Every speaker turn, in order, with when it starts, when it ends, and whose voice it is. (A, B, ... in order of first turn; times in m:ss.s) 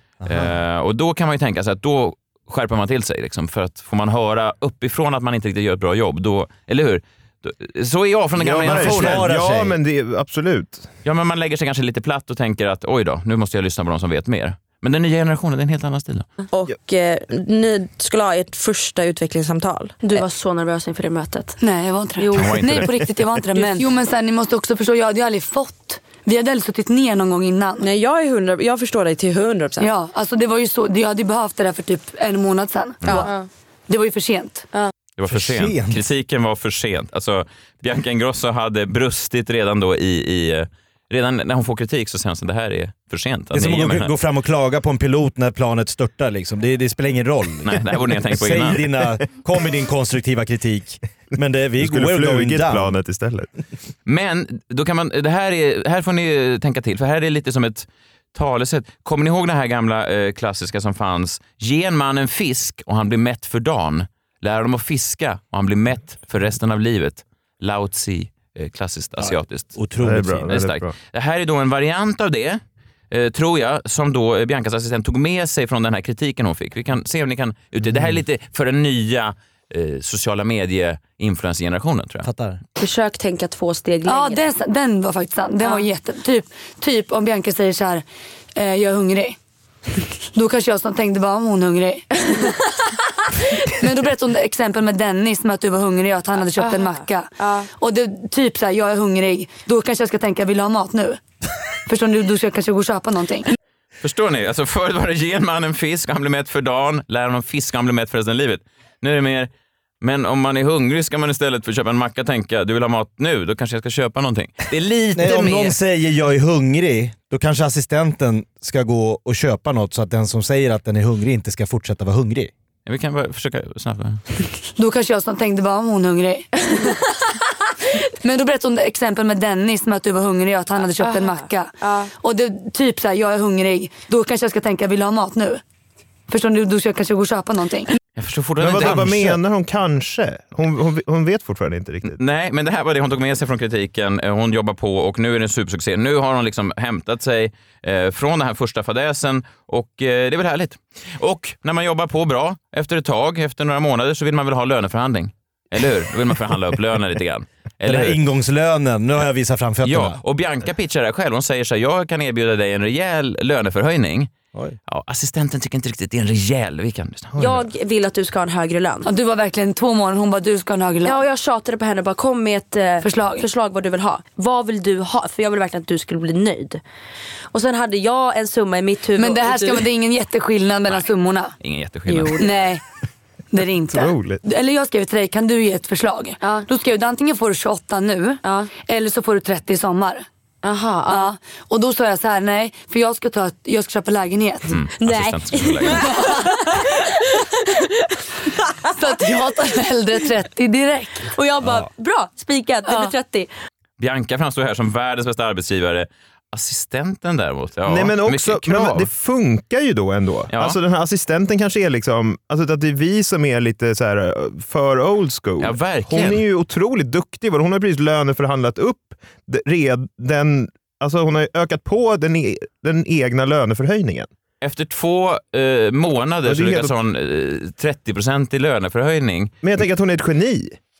0:00.2-0:00.5 A
0:00.3-0:09.2 B
0:08.4-0:10.9 C
0:08.6-0:09.8 A
0:11.0-0:16.3 B
0:16.5-0:21.6 D
0:21.6-0:27.8 E
0:22.2-0:22.6 D
0:22.4-0:23.0 B
0:23.5-0:23.9 D
0:27.8-0:29.9 F
0:29.8-0:33.3 E
0:33.1-0:33.5 D
0:33.9-0:34.7 E
0:35.2-0:44.1 B
0:35.3-0:36.0 A
0:43.5-0:53.0 A
0:47.6-0:48.8 B
0:51.8-0:53.5 C
0:54.1-1:09.8 B
1:09.2-1:10.6 A
1:10.0-1:10.9 C
1:10.5-1:22.3 B
1:22.2-1:22.6 A
1:22.8-1:24.5 D
1:24.0-1:29.4 E
1:30.4-1:41.2 E
1:36.6-1:37.7 D
1:41.9-1:43.5 E
1:44.0-1:49.5 B
1:50.0-1:55.8 B
1:55.2-2:02.5 A
2:02.9-2:04.2 B
2:04.8-2:15.6 E
2:11.0-2:12.1 D
2:16.3-2:18.0 E
2:18.2-2:19.2 B
2:18.6-2:22.2 C
2:18.7-2:19.4 A
2:22.1-2:38.2 B
2:37.8-2:40.2 A
2:39.8-2:44.3 B
2:44.9-2:47.3 B
2:47.3-2:47.7 C
2:47.4-2:49.1 D
2:49.0-2:51.2 E
2:51.0-2:56.8 D
2:53.0-2:53.4 E
2:57.5-2:59.9 D
2:59.2-3:01.6 E
3:01.6-3:02.4 B
3:02.1-3:02.7 D
3:02.4-3:02.8 E
3:03.5-3:10.2 E
3:03.9-3:04.4 C
3:08.4-3:08.7 D
3:10.6-3:11.3 D
3:11.1-3:14.8 E
3:14.7-3:16.1 B
3:15.0-3:17.4 D
3:15.9-3:16.8 E
3:18.8-3:21.3 E
3:19.0-3:19.6 D
3:21.3-3:23.5 D
3:22.9-3:23.1 E
3:24.0-3:29.1 B
3:27.9-3:44.3 C
3:30.5-3:30.8 B
3:35.6-3:36.4 B
3:44.6-3:49.6 B
3:46.4-3:46.9 C
3:49.6-3:50.8 C